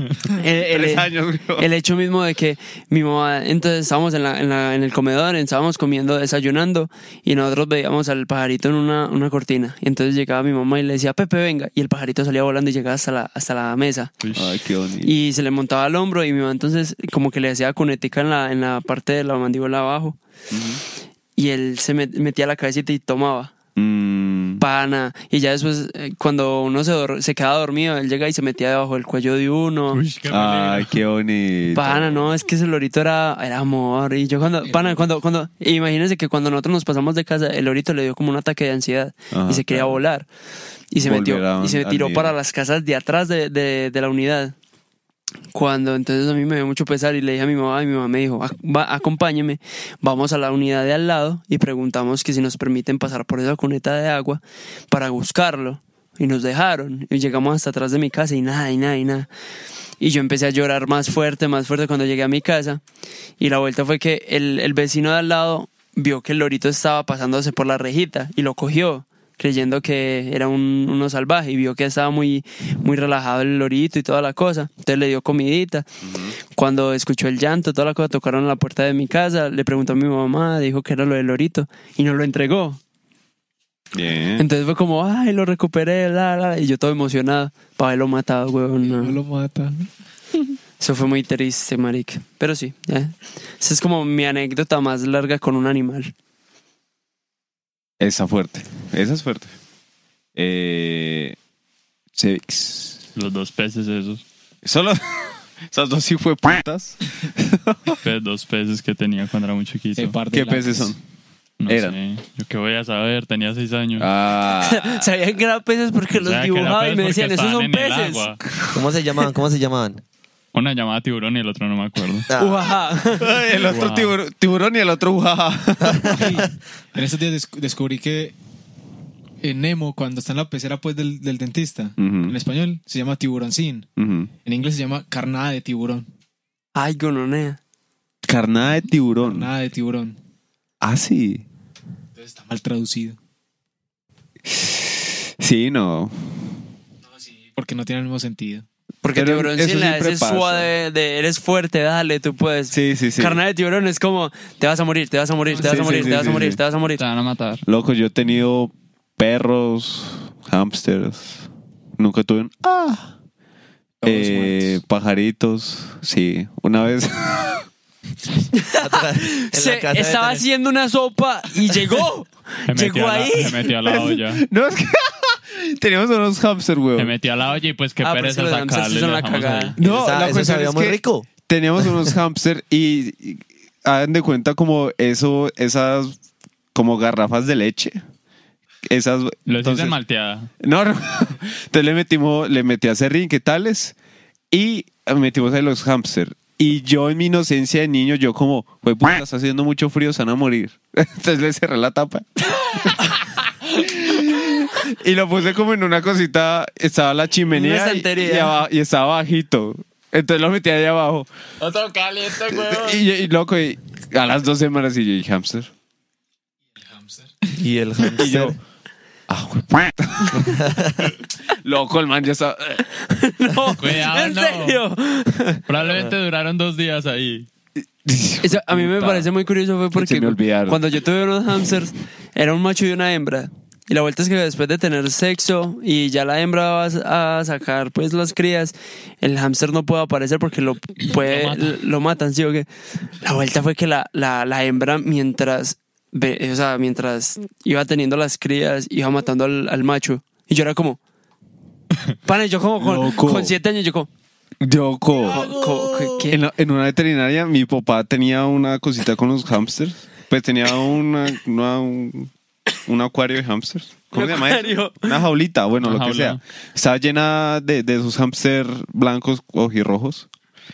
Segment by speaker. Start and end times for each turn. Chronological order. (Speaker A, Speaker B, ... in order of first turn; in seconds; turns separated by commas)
Speaker A: 0.2-14.2, Speaker B: 0.6-1.7, Speaker C: 14.2-14.5, Speaker B: 14.3-15.1, Speaker A: 15.0-20.2, Speaker B: 20.5-20.8, Speaker A: 21.4-23.5, Speaker B: 23.8-24.6, Speaker A: 24.6-30.0, Speaker C: 29.9-31.0, Speaker B: 30.3-32.3, Speaker A: 31.7-40.3, Speaker D: 34.6-35.1, Speaker B: 39.3-40.0, Speaker A: 40.9-44.5, Speaker B: 41.0-42.4, Speaker A: 45.5-59.3, Speaker A: 60.0-62.8, Speaker A: 63.4-75.9, Speaker B: 76.0-76.4, Speaker A: 76.5-82.8, Speaker B: 83.9-84.5, Speaker A: 84.4-89.2, Speaker D: 88.8-89.9, Speaker A: 90.8-96.1, Speaker B: 98.0-99.5, Speaker B: 100.3-101.4, Speaker B: 102.2-103.0, Speaker C: 103.2-104.2, Speaker B: 104.6-108.0, Speaker C: 108.0-110.2, Speaker D: 110.0-110.9, Speaker B: 110.3-111.0, Speaker C: 111.6-114.1, Speaker B: 111.7-112.0, Speaker B: 114.0-115.1, Speaker A: 114.6-118.3, Speaker C: 116.2-118.5, Speaker E: 118.7-120.0, Speaker C: 120.5-122.3, Speaker E: 122.3-122.7, Speaker A: 122.3-123.3, Speaker B: 123.2-126.4, Speaker C: 123.6-124.2, Speaker E: 125.8-126.3, Speaker D: 126.1-128.3, Speaker D: 129.4-133.9, Speaker B: 132.0-132.4, Speaker B: 134.0-134.3, Speaker D: 134.4-136.1, Speaker A: 136.8-137.6, Speaker B: 138.2-139.5, Speaker D: 139.2-140.2, Speaker B: 140.8-141.4, Speaker D: 142.2-143.2, Speaker B: 144.5-146.6, Speaker D: 147.1-148.7, Speaker A: 149.0-157.0, Speaker B: 149.2-150.7, Speaker B: 152.7-153.4, Speaker B: 155.6-156.6, Speaker C: 157.0-157.6, Speaker B: 157.7-163.1, Speaker D: 164.0-164.8, Speaker B: 164.0-167.6, Speaker A: 168.6-173.7, Speaker E: 168.8-170.4, Speaker C: 172.7-174.5, Speaker B: 173.8-177.1, Speaker C: 177.0-179.8, Speaker A: 178.0-179.8, Speaker B: 179.8-186.2, Speaker E: 179.8-181.3, Speaker B: 186.7-188.0, Speaker B: 188.8-190.0, Speaker C: 189.5-190.5, Speaker B: 190.6-193.9, Speaker B: 194.5-203.1, Speaker B: 203.7-211.3, Speaker A: 207.5-208.6, Speaker C: 211.6-213.0, Speaker B: 212.5-215.7, Speaker D: 216.8-217.6, Speaker E: 217.6-218.6, Speaker B: 218.2-218.6, Speaker B: 219.3-220.6, Speaker E: 220.3-221.1, Speaker B: 221.6-222.9, Speaker A: 223.1-225.7, Speaker C: 223.8-224.8, Speaker C: 225.7-227.5, Speaker B: 228.0-229.3, Speaker A: 228.4-242.7, Speaker B: 229.9-230.8, Speaker C: 241.1-241.8, Speaker A: 243.2-251.0, Speaker A: 252.2-254.1, Speaker B: 252.8-253.6, Speaker B: 254.6-255.5, Speaker D: 255.2-256.2, Speaker A: 255.3-256.4, Speaker B: 256.3-262.3, Speaker B: 262.9-270.3, Speaker A: 264.1-265.2, Speaker C: 265.8-266.4